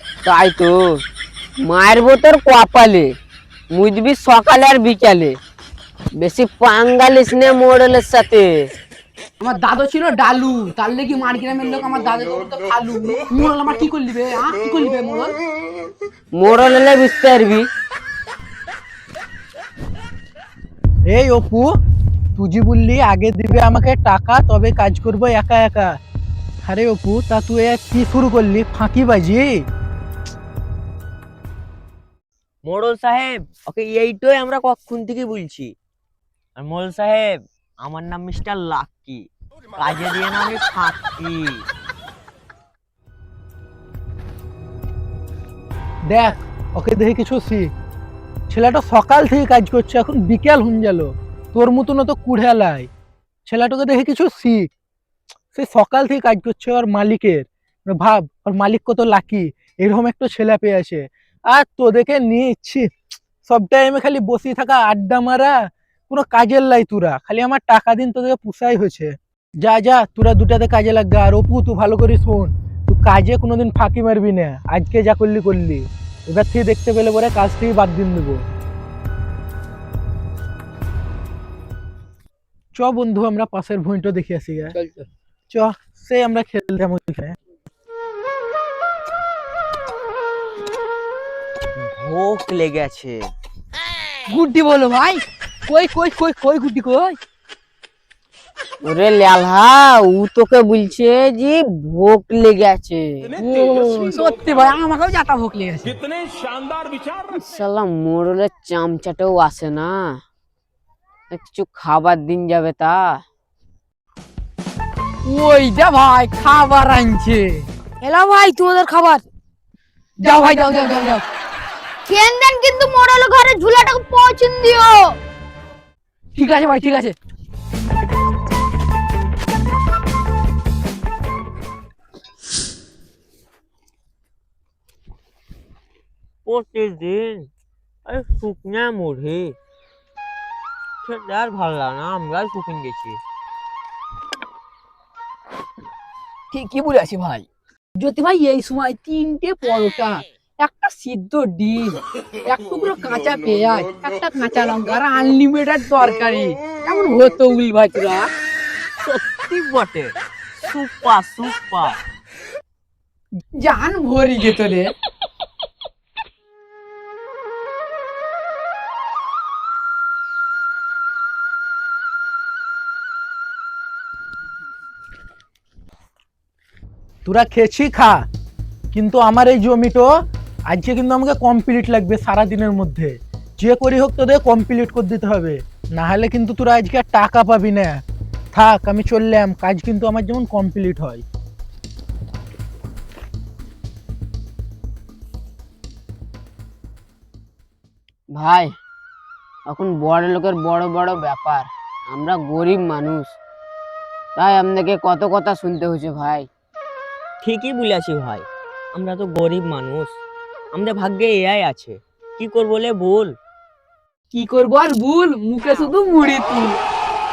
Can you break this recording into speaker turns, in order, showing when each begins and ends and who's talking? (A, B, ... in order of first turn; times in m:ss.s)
0:00.2-0:01.0 A
0:01.6-0:03.2 A
0:03.7-0:05.4 A
0:06.2-0:08.7 A
0:09.4-0:15.4 B
0:16.3-0:17.7 A
0:21.1-0:21.7 C
0:22.4-0:25.9 C
0:26.6-0:29.5 C
0:32.7-0:35.7 D
0:36.6-0:39.2 D
0:39.8-0:41.7 D
0:46.1-0:47.7 C
0:48.5-0:52.9 C
0:53.5-0:54.7 C
0:55.6-1:02.9 C
1:03.5-1:18.4 C
1:22.8-1:24.7 C
1:24.7-1:25.1 B
1:25.5-1:27.4 C
1:31.8-1:33.2 D
1:34.3-1:37.2 B
1:38.8-1:43.4 A
1:43.4-1:46.0 B
1:47.3-1:50.2 A
1:51.3-1:53.2 A
1:55.2-1:57.7 B
1:58.0-1:59.2 E
2:00.2-2:01.2 B
2:02.1-2:05.2 E
2:06.4-2:07.2 B
2:16.5-2:17.5 D
2:18.1-2:19.6 D
2:21.0-2:23.2 D
2:26.5-2:38.3 B
2:39.0-2:42.0 D
2:43.5-2:44.9 B
2:57.2-2:58.2 C
2:58.9-3:00.1 C
3:00.7-3:08.0 C
3:08.5-3:11.2 C
3:18.3-3:18.7 A
3:19.7-3:23.4 A
3:24.4-3:26.5 A
3:27.4-3:30.2 D
3:30.7-3:33.3 D
3:34.3-3:36.8 B